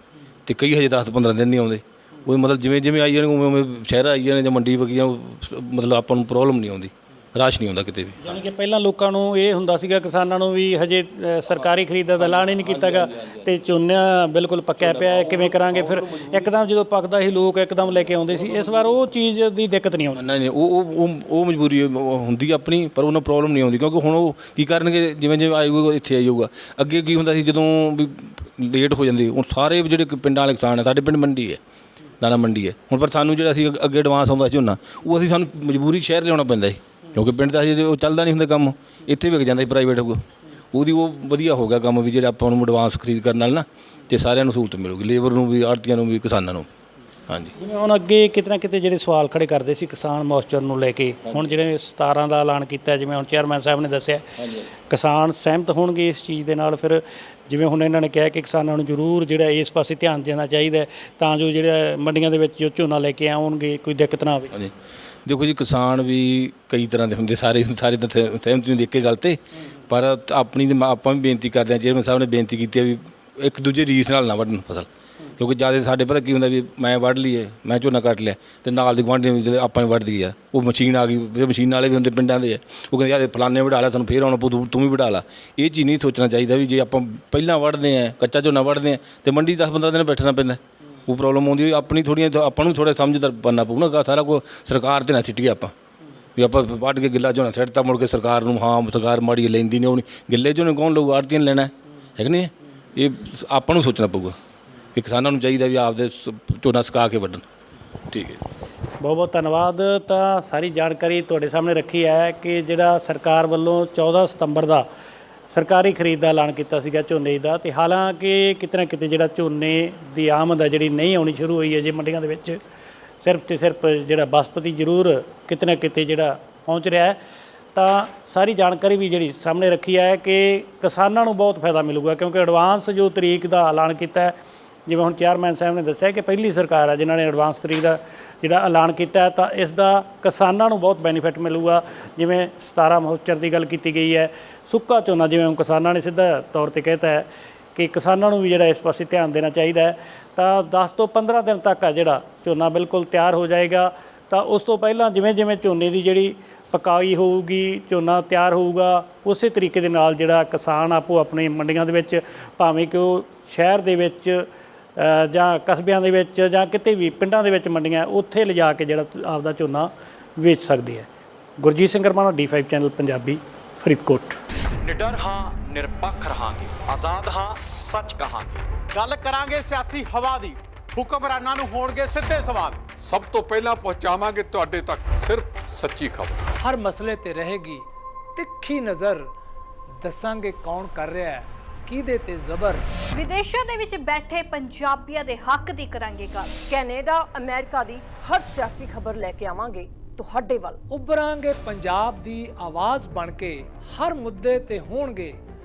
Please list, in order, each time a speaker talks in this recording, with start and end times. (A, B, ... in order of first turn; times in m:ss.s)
0:00.5-0:08.4 A
0:08.2-0:20.2 B
0:12.2-0:13.5 A
0:14.8-0:16.5 A
0:18.4-0:18.9 A
0:20.1-0:31.6 A
0:32.2-0:40.2 A
0:40.7-0:46.7 A
0:47.3-0:47.5 A
0:47.6-1:04.5 B
1:05.2-1:35.7 A
1:36.4-1:44.4 A
1:44.9-1:47.4 A
1:48.1-1:48.4 A
1:49.0-1:54.9 B
1:55.5-2:02.6 B
2:03.2-2:07.2 B
2:07.8-2:14.3 B
2:14.9-2:44.4 B
2:45.0-2:51.1 B
2:51.6-2:54.4 B
2:54.8-2:58.6 C
2:59.0-2:59.7 D
3:00.2-3:02.7 D
3:03.0-3:06.3 E
3:06.6-3:07.8 F
3:08.4-3:09.3 F
3:10.0-3:13.0 F
3:13.1-3:16.6 G
3:16.6-3:20.8 H
3:20.9-3:25.4 F